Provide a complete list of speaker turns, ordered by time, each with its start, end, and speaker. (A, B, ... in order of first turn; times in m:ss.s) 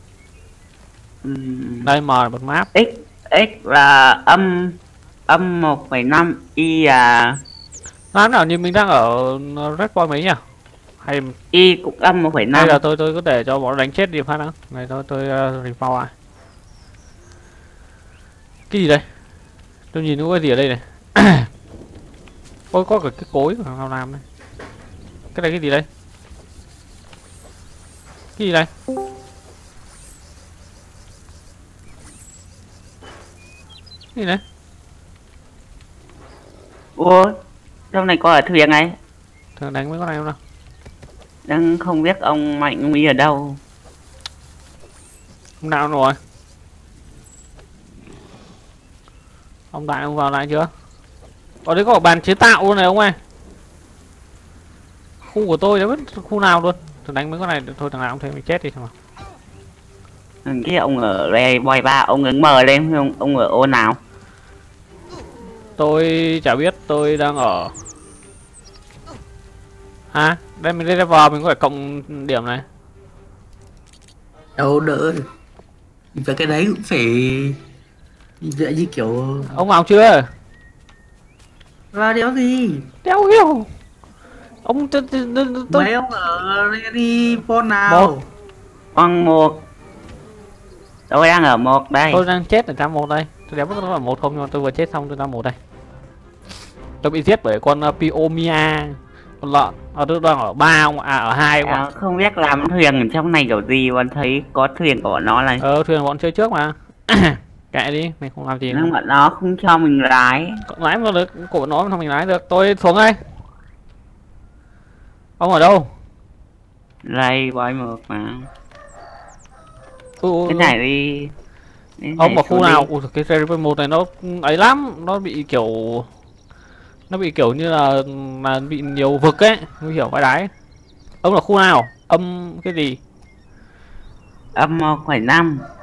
0:01.2-0:01.9 A
0:01.8-0:02.7 B
0:02.7-0:04.8 A
0:05.3-0:07.4 A
0:08.1-0:10.4 B
0:11.0-0:11.4 B
0:11.5-0:12.8 A
0:12.5-0:16.1 B
0:18.7-0:19.0 B
0:19.9-0:21.5 B
0:22.7-0:24.2 B
0:25.3-0:25.9 B
0:28.4-0:28.7 B
0:34.2-0:34.4 B
0:37.0-0:37.4 A
0:37.9-0:38.9 A
0:39.6-0:40.4 B
0:41.5-0:43.6 A
0:45.6-0:46.2 B
0:49.7-0:50.7 B
0:51.6-0:53.2 B
0:55.2-0:58.9 B
1:00.4-1:04.0 A
1:05.8-1:07.7 B
1:10.1-1:12.6 B
1:14.6-1:15.2 C
1:16.1-1:17.6 C
1:18.4-1:19.6 C
1:19.5-1:20.3 B
1:21.9-1:22.9 C
1:23.0-1:23.7 B
1:24.6-1:25.9 B
1:25.7-1:28.2 C
1:27.9-1:28.1 B
1:28.9-1:29.6 A
1:31.1-1:32.2 A
1:32.1-1:35.6 B
1:37.0-1:41.8 B
1:41.6-1:45.6 A
1:45.6-1:48.9 B
1:48.7-1:50.6 A
1:50.7-1:53.2 B
1:55.4-1:55.9 B
1:57.0-1:58.5 A
2:00.2-2:00.7 B
2:00.5-2:01.3 A
2:02.0-2:02.9 A
2:02.2-2:06.1 B
2:07.1-2:10.5 B
2:11.2-2:13.0 B
2:14.5-2:15.6 A